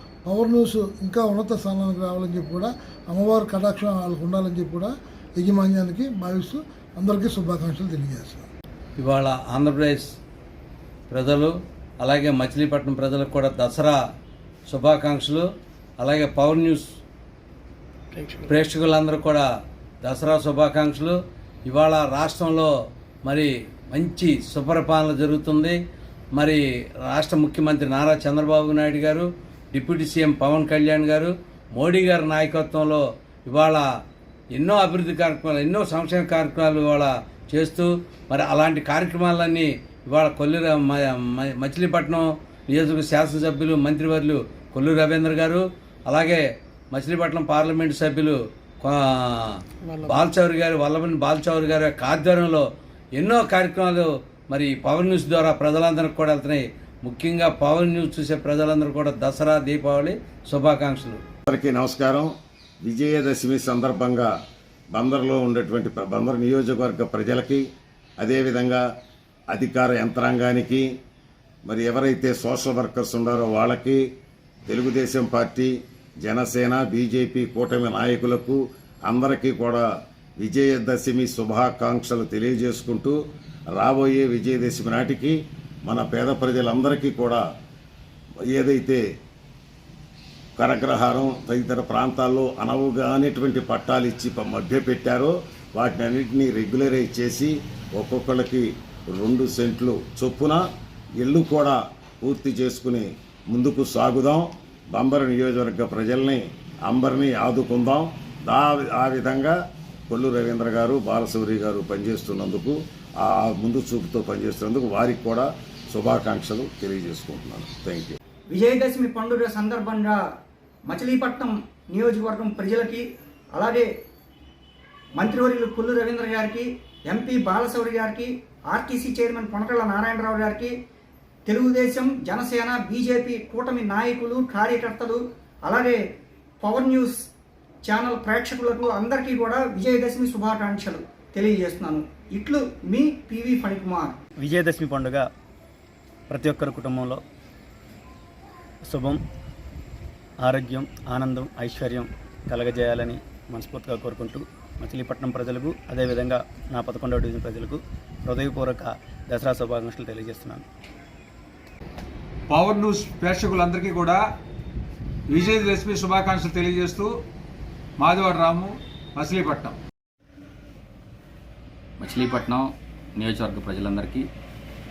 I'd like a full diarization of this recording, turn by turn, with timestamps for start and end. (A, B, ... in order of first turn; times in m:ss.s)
0:00.2-0:08.4 A
0:09.0-0:10.1 B
0:11.1-0:14.0 B
0:14.7-0:15.5 B
0:16.0-0:16.8 B
0:18.4-0:19.4 B
0:20.0-0:22.7 B
0:23.2-0:25.8 B
0:26.4-0:33.8 B
0:34.5-0:41.0 B
0:41.5-0:49.0 B
0:49.5-0:52.6 B
0:53.2-1:01.2 B
1:01.5-1:02.3 C
1:02.8-1:04.3 C
1:04.9-1:07.6 C
1:08.2-1:08.8 C
1:09.5-1:10.8 C
1:11.7-1:14.0 C
1:14.7-1:19.8 C
1:20.4-1:23.2 C
1:23.7-1:27.4 C
1:28.5-1:29.0 C
1:30.6-1:40.6 C
1:41.2-1:49.5 C
1:50.1-1:58.2 C
1:58.5-2:00.2 D
2:00.9-2:03.9 D
2:05.2-2:10.7 D
2:11.5-2:16.0 D
2:16.6-2:17.2 D
2:17.8-2:24.1 D
2:24.4-2:25.3 E
2:26.3-2:27.2 E
2:28.8-2:29.2 E
2:30.4-2:40.6 E
2:42.5-2:44.2 F
2:45.3-2:47.1 F
2:48.0-2:49.8 F
2:52.0-2:54.3 G